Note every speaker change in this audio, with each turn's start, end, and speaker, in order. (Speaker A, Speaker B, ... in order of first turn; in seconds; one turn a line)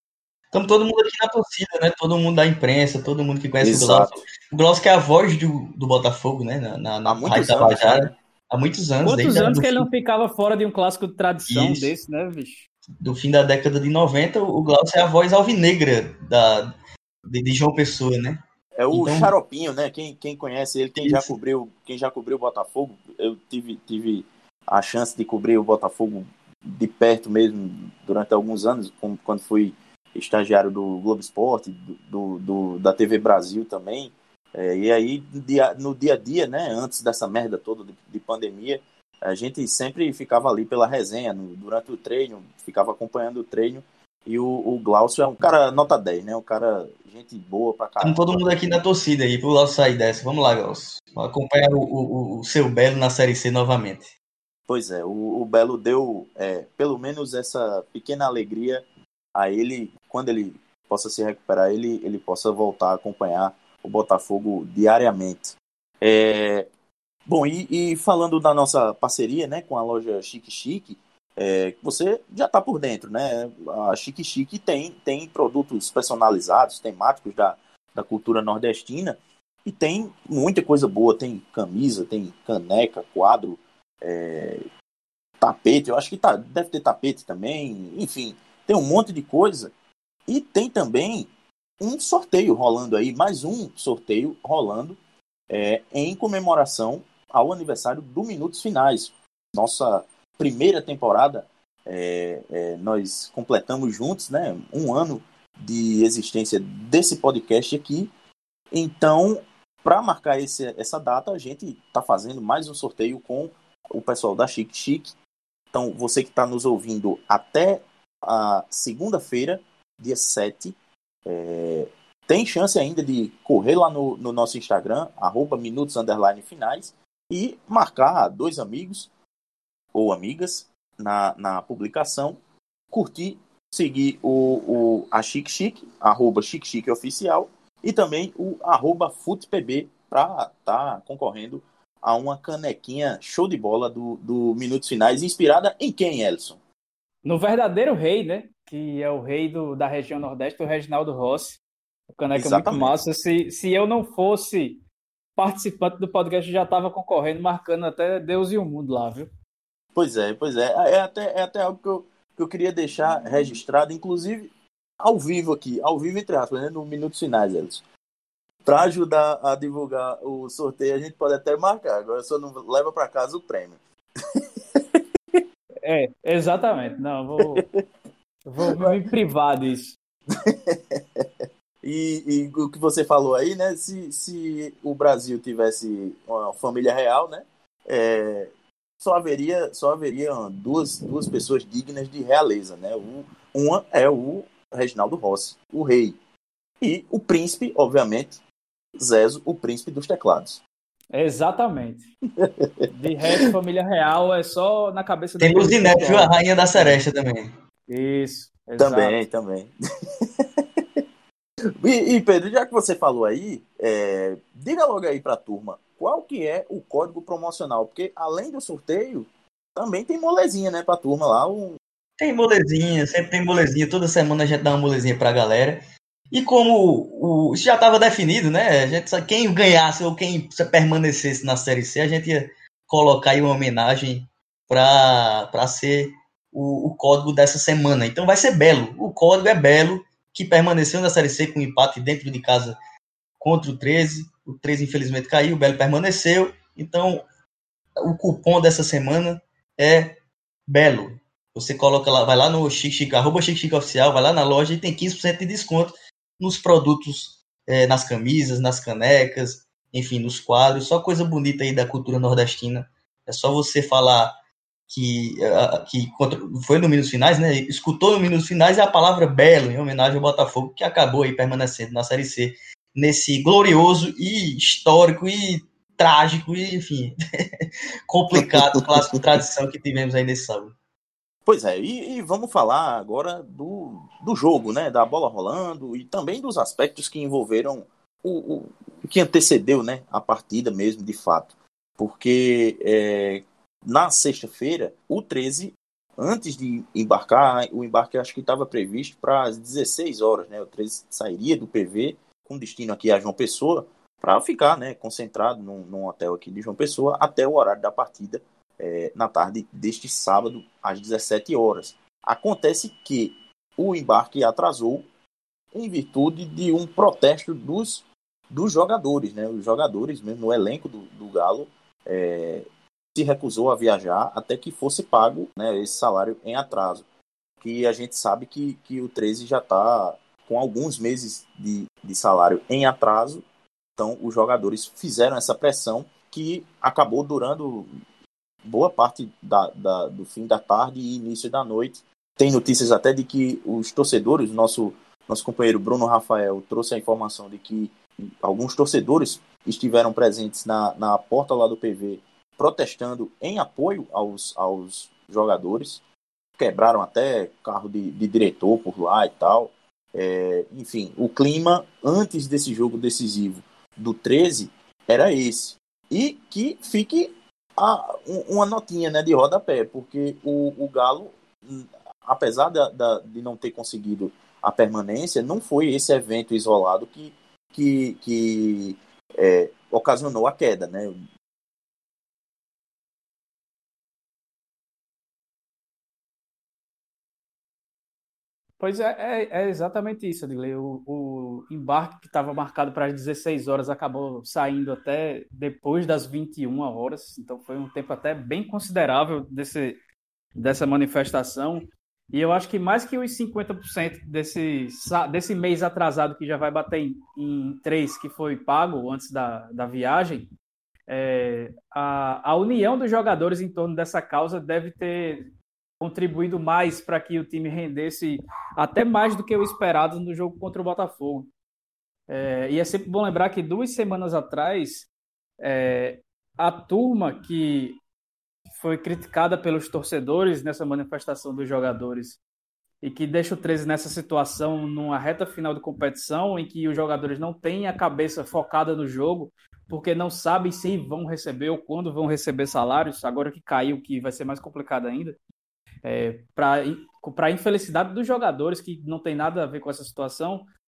Speaker A: 0.5-9.9
Speaker B: 3.6-4.2
Speaker B: 7.0-8.1
Speaker C: 9.0-12.7
Speaker A: 11.5-11.9
Speaker A: 13.0-16.7
Speaker A: 17.3-18.4
Speaker B: 18.8-48.8
Speaker A: 18.9-19.3
Speaker A: 21.0-21.3
Speaker A: 48.0-54.1
Speaker B: 54.7-66.7
Speaker B: 67.3-84.7
Speaker B: 85.4-89.7
Speaker B: 90.3-91.3
Speaker B: 91.8-95.0
Speaker B: 95.5-108.1
Speaker B: 108.7-115.2
Speaker B: 115.7-129.1
Speaker B: 129.9-132.4
Speaker B: 132.9-146.6
Speaker C: 147.2-151.6
Speaker C: 152.1-154.8
Speaker B: 152.3-153.0
Speaker C: 155.4-159.3
Speaker B: 159.9-164.5
Speaker B: 165.0-167.8
Speaker B: 168.7-173.8
Speaker B: 174.7-175.4
Speaker C: 175.8-177.6
Speaker C: 178.5-180.0
Speaker B: 178.7-178.9
Speaker B: 180.3-188.5
Speaker B: 189.0-196.2
Speaker B: 196.8-198.4
Speaker B: 199.0-200.6
Speaker C: 201.1-202.1
Speaker B: 202.4-202.9
Speaker C: 202.9-207.0
Speaker A: 205.4-207.5
Speaker C: 207.9-209.2
Speaker B: 208.8-211.0
Speaker B: 211.8-221.8
Speaker A: 222.2-242.8
Speaker A: 243.4-247.2
Speaker A: 248.0-250.2
Speaker A: 250.7-264.3
Speaker A: 264.9-280.7
Speaker B: 278.3-279.0
Speaker B: 281.5-315.1
Speaker B: 315.7-327.1
Speaker B: 327.6-333.4
Speaker B: 334.0-337.9
Speaker B: 338.7-356.0
Speaker B: 356.6-381.2
Speaker C: 388.8-400.0
Speaker C: 400.6-410.5
Speaker C: 411.1-415.5
Speaker C: 416.0-421.5
Speaker C: 422.3-425.1
Speaker C: 425.6-428.0
Speaker C: 428.7-432.4
Speaker C: 433.0-445.4
Speaker C: 446.0-450.7